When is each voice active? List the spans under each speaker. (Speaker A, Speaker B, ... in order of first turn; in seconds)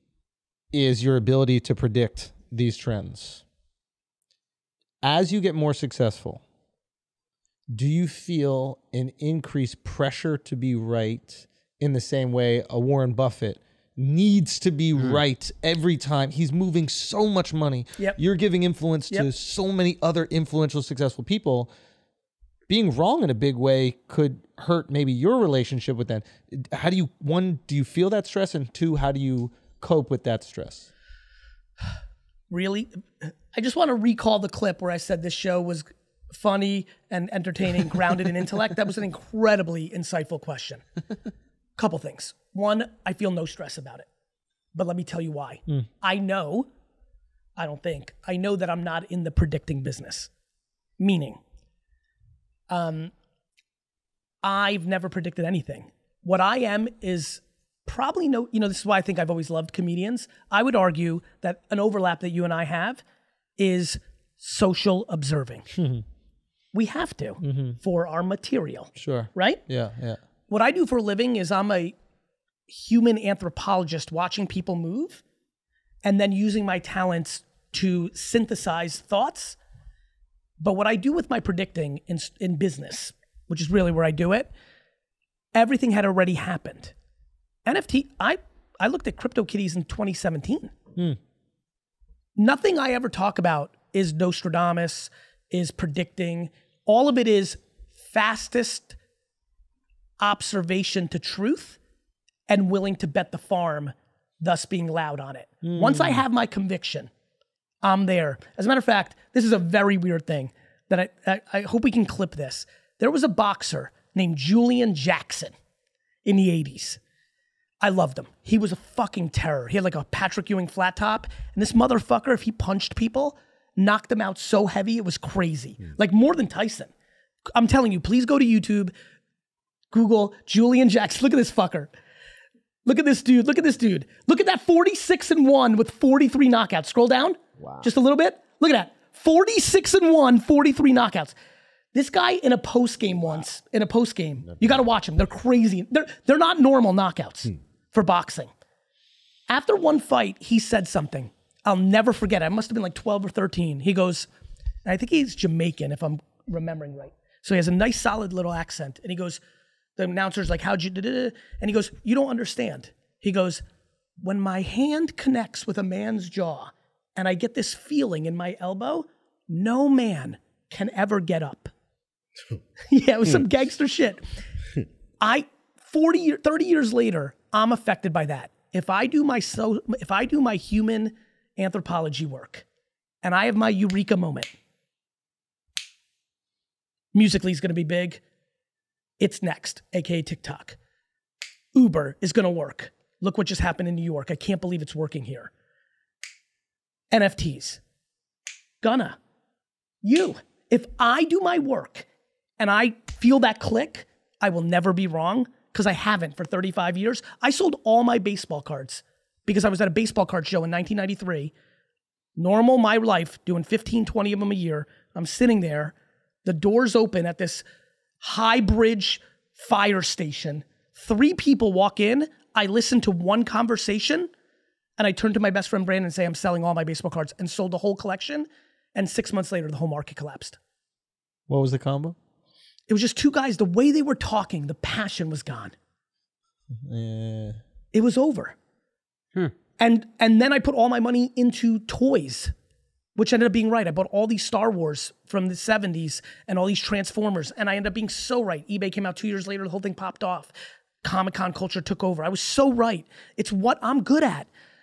Speaker A: 0.7-3.4, 5.0-6.4, 7.7-21.7, 22.7-30.9, 65.8-66.0, 67.4-67.8, 69.0-70.2, 105.6-106.2, 231.5-232.2, 236.8-237.6
Speaker B: 32.5-33.0, 33.5-40.8, 41.8-44.0, 44.7-46.7, 47.6-50.3, 51.0-51.4, 52.7-53.1, 54.4-63.0, 63.6-65.7, 66.7-69.6, 70.5-72.0, 72.7-75.2, 76.0-79.6, 80.6-84.5, 85.5-86.9, 87.7-90.7, 92.4-97.6, 98.1-99.0, 100.2-101.8, 102.5-107.1, 107.8-115.5, 116.2-117.0, 117.8-126.9, 127.5-128.9, 129.9-131.9, 132.8-141.3, 141.9-148.5, 149.5-154.3, 154.8-159.4, 160.0-163.6, 164.2-171.7, 172.9-174.2, 175.2-182.7, 183.2-184.5, 187.1-188.2, 189.2-190.8, 191.8-195.5, 197.1-197.8, 198.8-199.2, 200.0-202.1, 202.6-211.5, 212.3-217.7, 218.2-224.3, 225.0-230.6, 232.9-235.7, 237.9-238.5, 239.8-242.5, 243.2-254.5